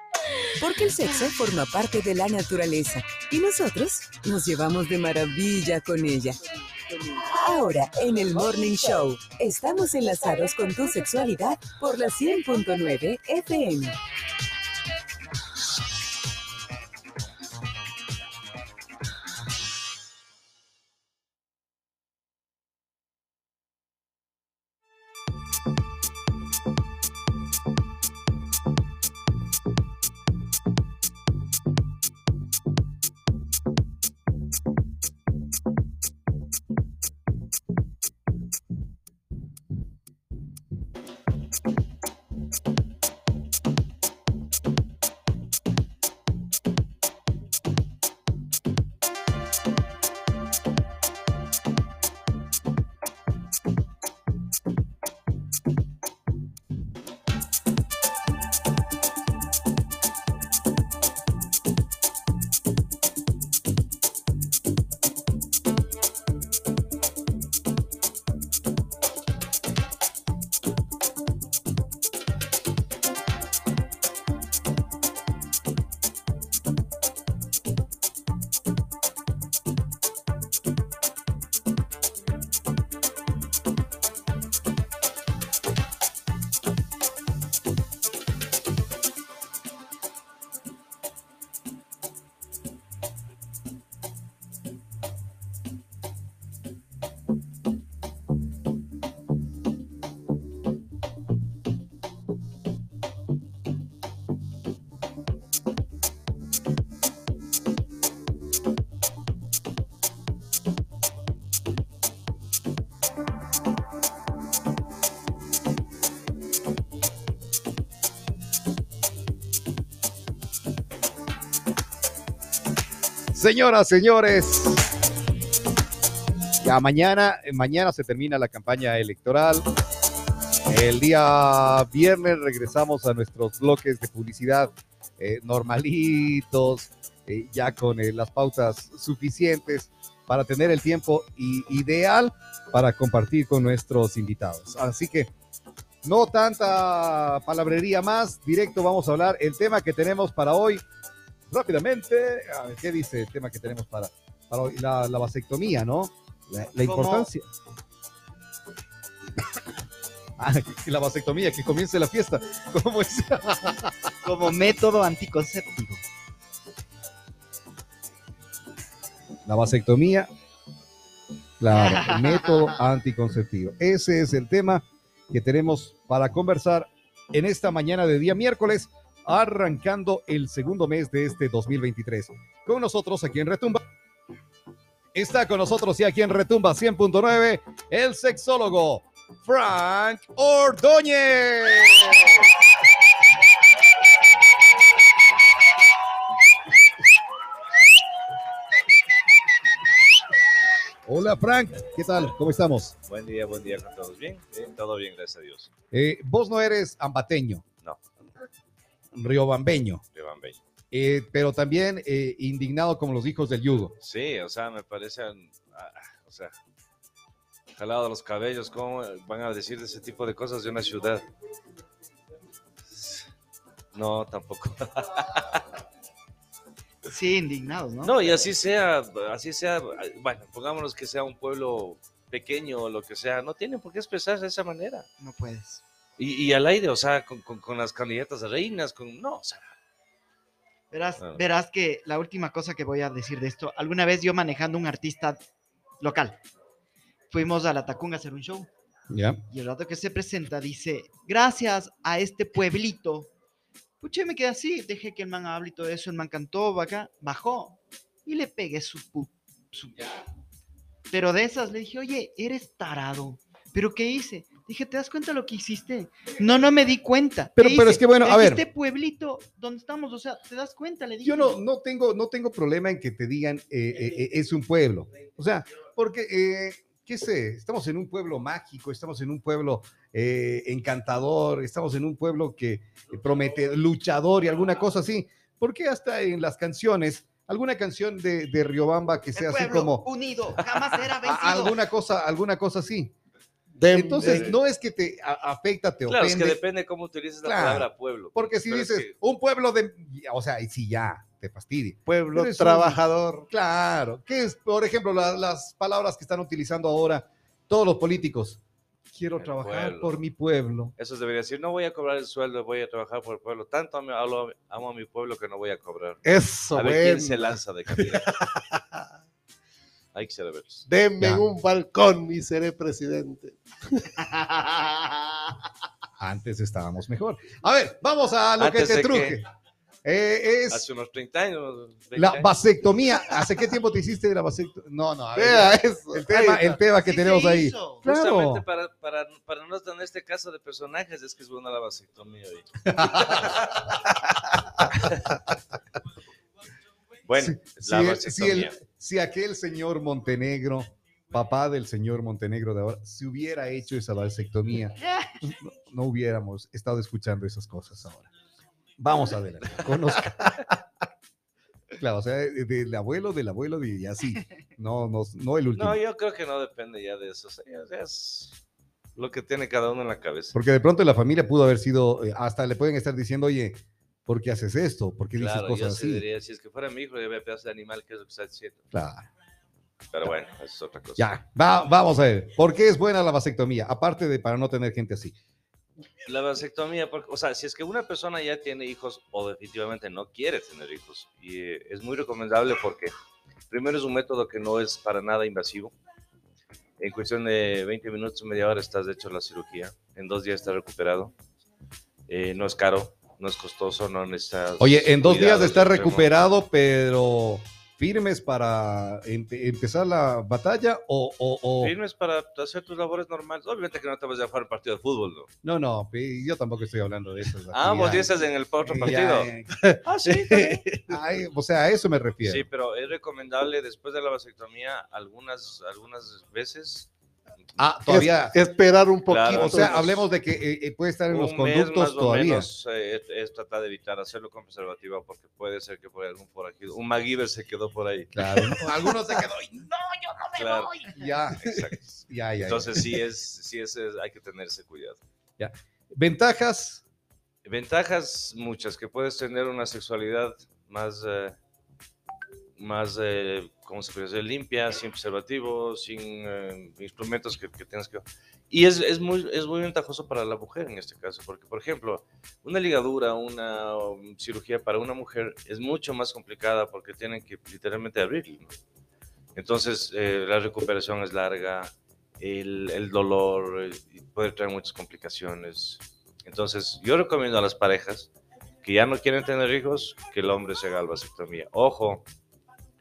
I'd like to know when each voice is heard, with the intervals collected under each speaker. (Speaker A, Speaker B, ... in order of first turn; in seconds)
Speaker A: 0.6-13.9
Speaker B: 123.3-124.8, 126.6-129.7, 130.7-145.3, 146.0-150.8, 151.5-157.5, 160.4-163.9, 169.5-170.3, 171.6-183.8, 185.2-192.4, 201.1-202.9, 205.9-207.6, 209.1-210.0, 210.9-213.9, 249.1-249.4, 267.6-268.6, 271.2-290.1, 291.2-293.1, 293.9-296.6, 297.4-310.9, 316.8-317.0, 321.2-321.4, 326.2-329.4, 330.0-330.9, 332.1-338.6, 342.8-343.5, 347.4-358.3, 359.0-360.8, 362.0-366.0, 370.5-376.2, 378.9-379.3, 381.2-385.3, 404.8-411.9, 415.6-418.3, 418.8-420.0, 421.1-422.7, 427.8-428.6, 429.5-432.7, 438.3-443.1, 445.6-447.0
Speaker C: 156.8-157.3, 164.2-166.0, 171.7-172.8, 227.1-228.5, 235.2-235.8, 240.9-245.4, 246.0-246.4, 247.3-248.7, 249.5-253.3, 254.0-260.2, 261.1-271.6, 289.4-291.8, 324.2-325.2, 337.0-338.1, 355.0-355.4
Speaker D: 203.1-205.7, 210.1-210.6, 214.0-216.5, 217.7-221.3, 222.9-223.3, 223.9-225.6, 228.0-235.1, 236.2-239.7, 241.2-241.4, 294.2-294.5, 296.1-299.1, 309.4-310.2, 311.0-318.4, 320.1-320.9, 328.6-329.4, 330.7-332.6, 338.0-343.9, 344.9-345.3, 347.3-348.8, 365.8-368.6, 369.2-370.6, 375.4-378.8, 380.1-381.3, 386.2-393.1, 393.7-395.9, 397.0-401.3, 402.3-406.3, 411.8-415.5, 417.7-419.5, 420.0-420.9, 422.4-427.1, 429.3-430.3, 431.3-438.6, 440.5-445.2, 447.6-451.6, 452.8-468.7, 469.6-478.3, 478.8-482.2
Speaker E: 293.7-294.6, 302.1-303.5, 316.2-317.4, 318.3-319.0, 320.9-324.1, 335.3-336.7, 420.3-421.1, 428.1-430.0